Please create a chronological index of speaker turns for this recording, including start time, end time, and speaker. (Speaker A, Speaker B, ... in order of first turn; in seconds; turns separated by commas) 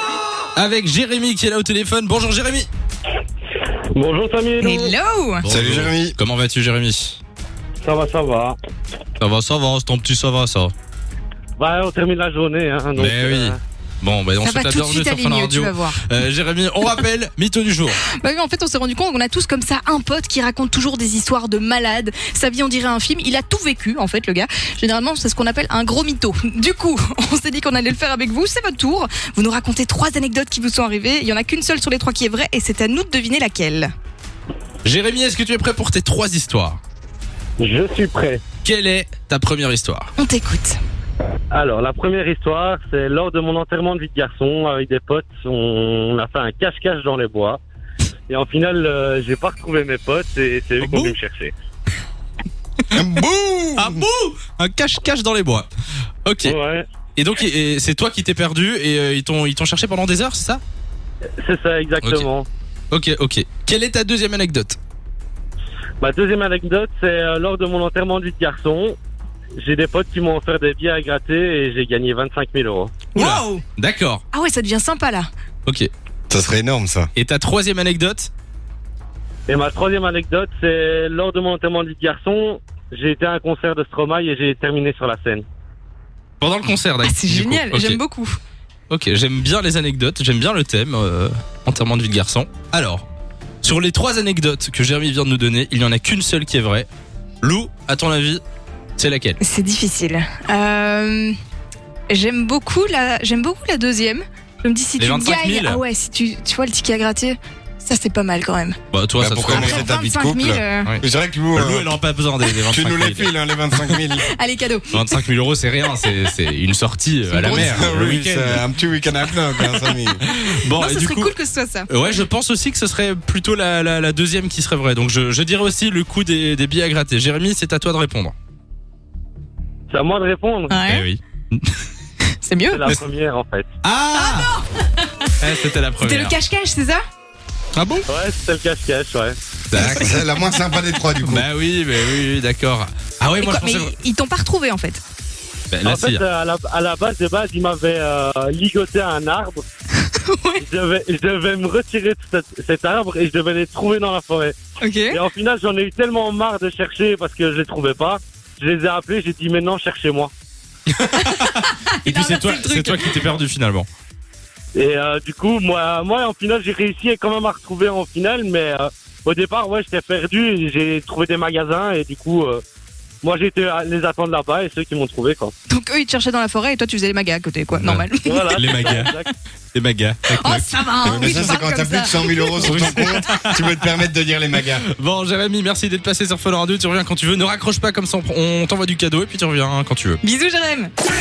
Speaker A: 0.6-2.7, Speaker B: 3.9-4.9, Speaker C: 4.6-5.5, Speaker A: 5.4-7.2, Speaker D: 5.5-6.2, Speaker B: 7.8-8.6, Speaker A: 9.2-10.7, Speaker B: 11.6-13.6, Speaker A: 13.0-18.0, Speaker C: 14.4-16.1, Speaker C: 18.2-33.9, Speaker A: 34.8-36.8, Speaker B: 37.6-38.4, Speaker A: 38.6-40.1, Speaker C: 40.2-40.8, Speaker B: 41.5-47.6, Speaker B: 48.3-51.5, Speaker A: 50.8-51.2, Speaker D: 52.9-54.1, Speaker A: 53.8-55.7, Speaker A: 56.2-56.6, Speaker B: 56.4-56.9, Speaker A: 57.2-60.6, Speaker B: 61.4-62.5, Speaker A: 62.0-62.3, Speaker A: 62.9-64.8, Speaker B: 66.0-69.0, Speaker B: 69.6-73.0, Speaker C: 73.2-73.6, Speaker A: 73.2-74.2, Speaker C: 74.3-75.3, Speaker D: 76.3-77.1, Speaker A: 77.2-78.3, Speaker B: 79.5-85.5, Speaker A: 86.4-88.0, Speaker C: 87.0-88.4, Speaker A: 88.9-93.0, Speaker A: 93.6-96.9, Speaker A: 97.4-98.4, Speaker A: 99.0-99.4, Speaker C: 99.4-101.3, Speaker C: 102.1-108.8, Speaker A: 105.0-105.8, Speaker A: 108.9-109.9, Speaker D: 109.2-111.9, Speaker C: 109.5-110.9, Speaker A: 111.5-113.3, Speaker D: 112.7-114.3, Speaker C: 114.2-115.2, Speaker A: 114.9-118.7, Speaker C: 117.3-117.8, Speaker D: 117.4-120.2, Speaker A: 119.9-121.3, Speaker C: 120.4-122.0, Speaker A: 121.9-128.3, Speaker B: 129.9-130.8, Speaker C: 130.7-131.1, Speaker A: 130.9-131.7, Speaker C: 132.4-132.8, Speaker B: 132.7-133.7, Speaker A: 133.8-134.5, Speaker C: 134.2-135.3, Speaker A: 135.4-136.4, Speaker C: 136.0-137.0, Speaker A: 137.7-138.1, Speaker B: 138.1-139.4, Speaker A: 139.7-140.3, Speaker D: 139.7-141.5, Speaker A: 141.2-143.9, Speaker C: 143.4-145.0, Speaker A: 145.7-146.2, Speaker B: 145.8-149.7, Speaker C: 150.2-150.6, Speaker B: 150.6-154.6, Speaker C: 154.8-155.2, Speaker B: 155.1-160.3, Speaker A: 160.9-163.9, Speaker C: 161.2-163.2, Speaker B: 164.8-172.6, Speaker B: 173.2-175.5, Speaker C: 175.7-179.3, Speaker A: 177.8-179.1, Speaker B: 178.2-179.3, Speaker A: 179.7-181.5, Speaker C: 180.3-183.1, Speaker D: 181.0-184.9, Speaker A: 182.6-183.8, Speaker A: 184.8-190.2, Speaker C: 190.2-190.9